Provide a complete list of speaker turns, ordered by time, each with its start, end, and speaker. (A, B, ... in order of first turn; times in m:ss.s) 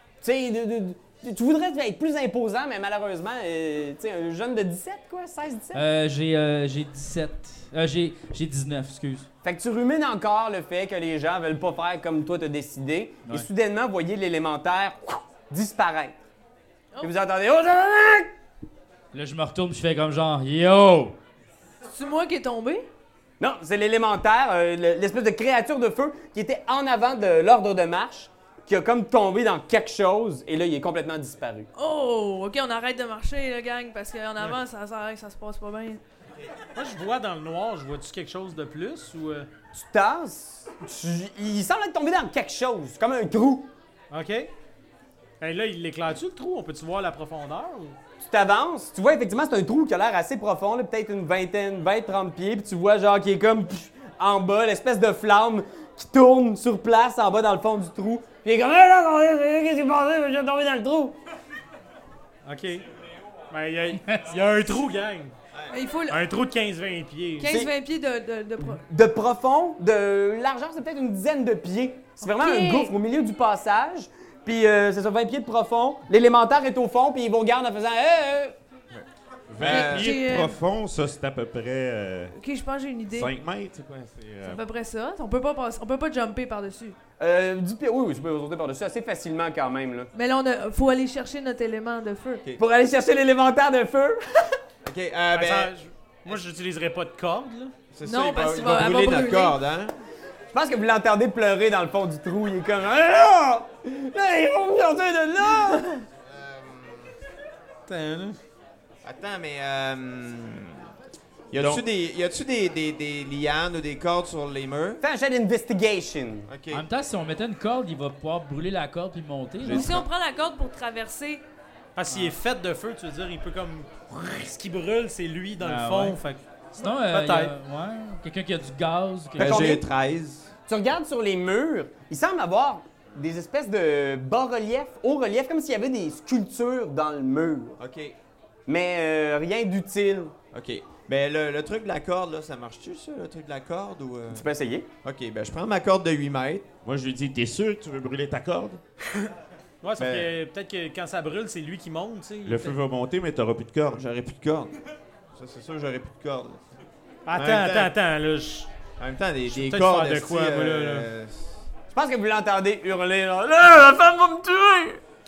0:00.2-0:05.8 A
0:05.7-0:09.3 B
0:09.4-0:16.1 A
0:17.0-0:18.3 A
0:19.1-0:21.1 B
0:21.9-0:22.9 C
0:23.4-0:31.7 A
0:31.7-0:36.0 C
0:36.7-0:39.5 D
0:39.7-0:43.7 A
0:44.1-0:44.5 D
0:45.4-0:48.0 D
0:48.2-1:01.2 A
1:02.4-1:02.9 D
1:03.5-1:05.3 D
1:05.7-1:06.2 C
1:06.1-1:07.5 D
1:07.4-1:08.8 C
1:08.6-1:18.5 A
1:12.2-1:12.9 C
1:18.9-1:20.2 E
1:19.5-1:22.3 F
1:19.6-1:20.6 C
1:22.4-1:23.3 C
1:23.1-1:24.6 F
1:24.4-1:27.0 C
1:27.2-1:30.1 A
1:30.1-1:32.4 C
1:32.6-1:34.6 A
1:34.8-1:35.7 E
1:35.3-1:37.7 D
1:37.9-1:39.9 E
1:38.0-1:39.6 C
1:40.5-1:46.0 A
1:46.2-1:47.1 E
1:47.9-1:48.4 D
1:49.0-1:50.8 E
1:51.5-1:55.0 E
1:51.5-1:51.8 F
1:55.0-1:56.5 A
1:56.5-1:56.8 E
1:56.7-1:59.9 B
1:59.6-2:00.0 E
1:59.6-2:01.4 C
2:02.0-2:07.5 D
2:02.1-2:02.3 B
2:05.6-2:06.2 B
2:06.7-2:09.7 B
2:09.4-2:09.8 A
2:09.4-2:10.5 E
2:10.7-2:17.8 A
2:17.8-2:18.2 E
2:18.7-2:20.3 A
2:20.5-2:24.5 E
2:24.3-2:24.9 A
2:25.0-2:26.6 E
2:26.8-2:28.8 F
2:29.8-2:32.8 D
2:30.0-2:30.3 E
2:32.4-2:34.0 F
2:33.9-2:34.7 E
2:35.3-2:36.6 E
2:37.2-2:38.7 D
2:37.3-2:37.9 E
2:39.0-2:41.6 E
2:39.5-2:41.1 D
2:41.9-2:45.0 A